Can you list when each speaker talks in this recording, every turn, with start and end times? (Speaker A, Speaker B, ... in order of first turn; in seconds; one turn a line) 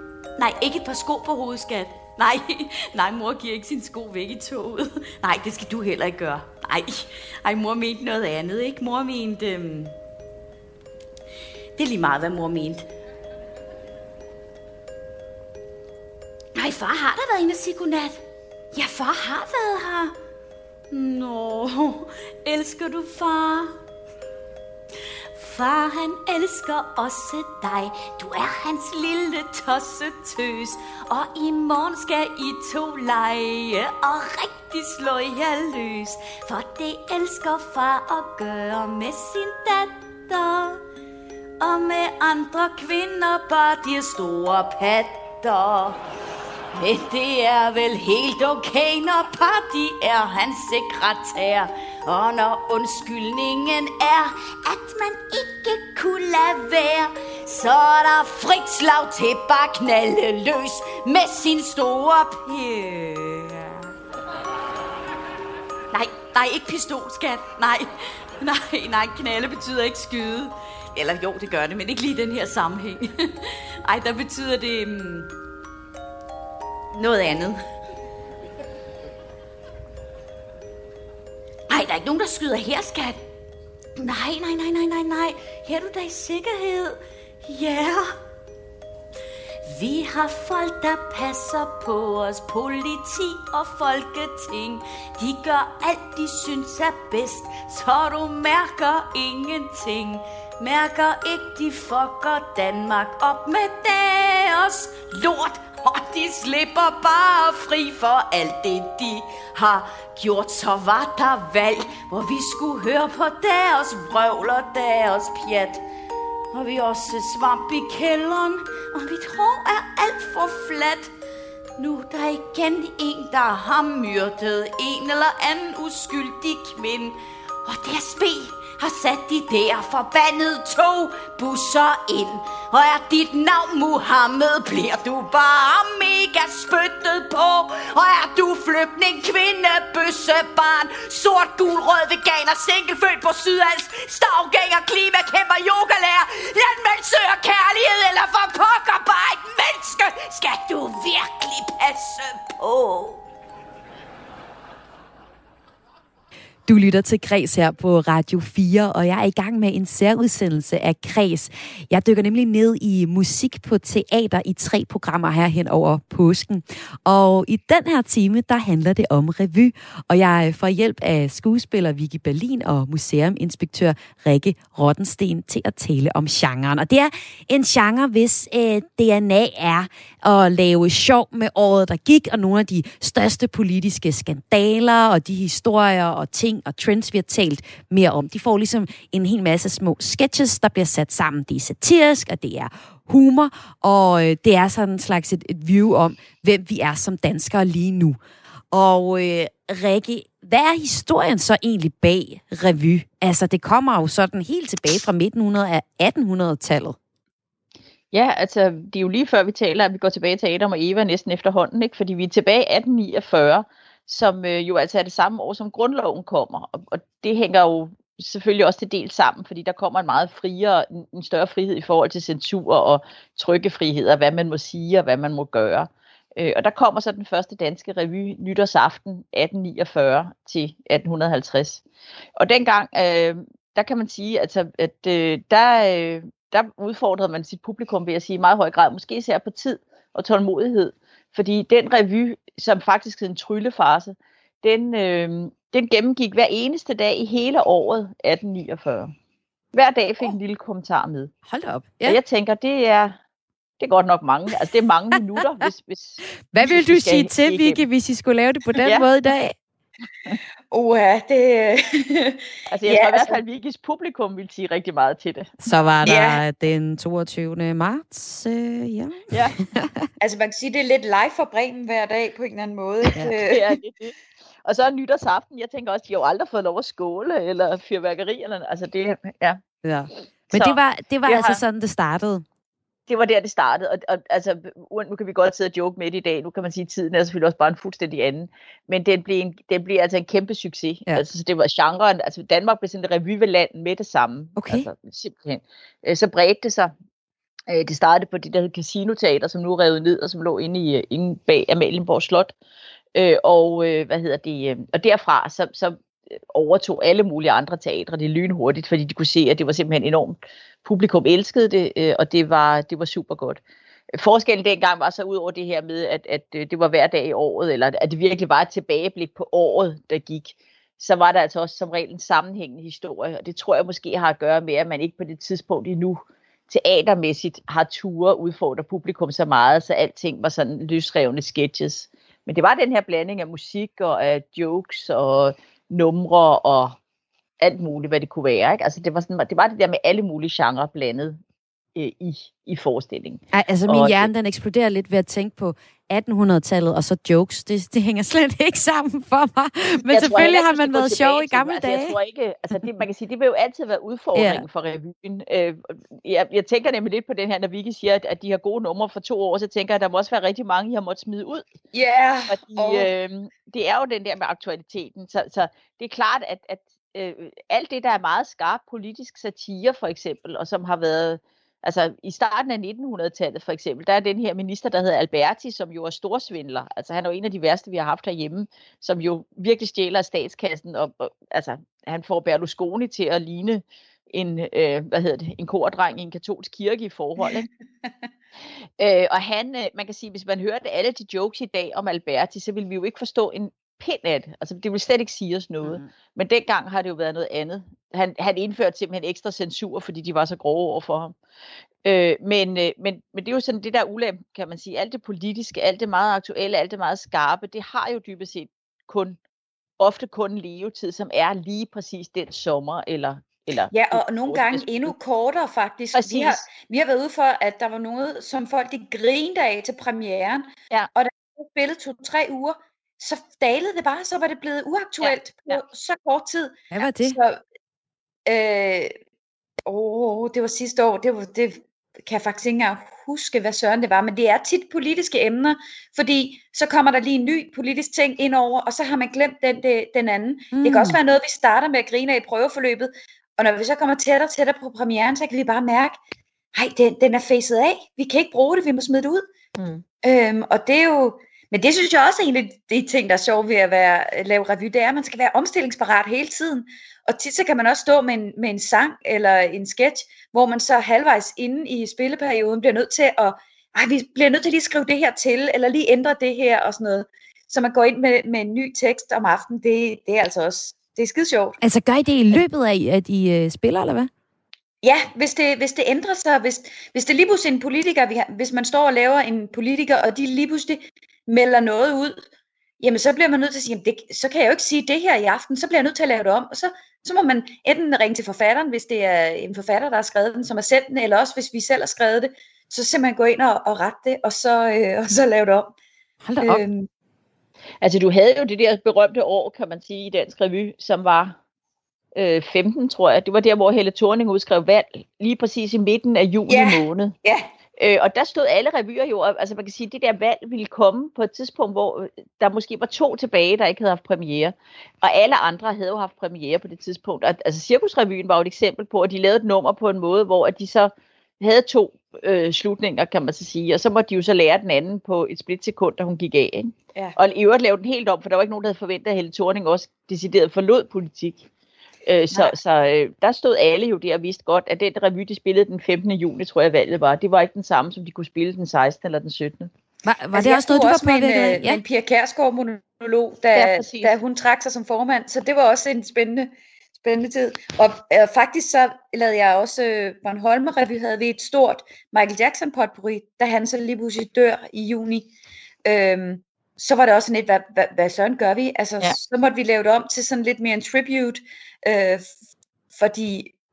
Speaker A: 0.4-9.9
Speaker A: 11.8-12.9
Speaker A: 16.5-18.2
Speaker A: 18.7-20.1
Speaker A: 20.9-23.7
Speaker A: 25.4-40.8
Speaker A: 41.6-46.0
Speaker A: 46.7-63.8
Speaker A: 65.9-73.1
Speaker A: 73.8-75.3
Speaker A: 76.9-77.6
Speaker A: 81.7-83.2
Speaker A: 84.0-88.1
Speaker A: 89.6-115.8
Speaker A: 116.5-121.1
Speaker A: 121.8-153.2
Speaker B: 156.7-198.2
Speaker B: 198.7-207.0
Speaker C: 208.1-231.8
Speaker C: 232.3-249.1
Speaker C: 249.7-251.3
Speaker B: 251.5-252.2
Speaker C: 252.0-253.2
Speaker C: 253.8-257.8
Speaker B: 256.5-259.6
Speaker C: 258.8-259.1
Speaker D: 260.7-263.4
Speaker C: 262.7-265.5
Speaker B: 265.6-270.1
Speaker D: 266.0-266.4
Speaker C: 269.3-269.6
Speaker D: 270.2-273.8
Speaker C: 273.4-279.6
Speaker B: 279.8-282.4
Speaker C: 280.5-281.6
Speaker C: 283.1-296.9
Speaker B: 294.6-294.9
Speaker C: 297.7-302.5
Speaker C: 303.1-313.6
Speaker C: 314.1-337.0
Speaker C: 337.6-341.4
Speaker C: 341.9-344.3
Speaker B: 343.5-352.1
Speaker C: 350.1-361.7
Speaker B: 354.4-354.6
Speaker D: 361.9-363.1
Speaker C: 362.5-387.7
Speaker C: 389.0-401.4
Speaker C: 402.0-409.4
Speaker C: 410.0-415.1
Speaker D: 413.9-427.6
Speaker C: 416.1-416.6
Speaker C: 425.2-425.8
Speaker B: 426.9-427.4
Speaker D: 428.4-429.1
Speaker D: 429.9-446.2
Speaker B: 440.7-441.2
Speaker D: 446.7-449.4
Speaker C: 449.8-450.0
Speaker D: 450.2-471.8
Speaker B: 471.8-474.3
Speaker D: 475.0-482.4
Speaker D: 483.0-495.9
Speaker B: 496.4-496.8
Speaker D: 496.6-497.1
Speaker C: 498.0-501.6
Speaker C: 502.3-507.3
Speaker D: 506.7-507.7
Speaker C: 508.0-531.7
Speaker C: 532.2-539.9
Speaker B: 540.2-542.0
Speaker D: 540.5-555.5
Speaker C: 543.7-544.3
Speaker D: 556.0-562.5
Speaker D: 563.1-563.7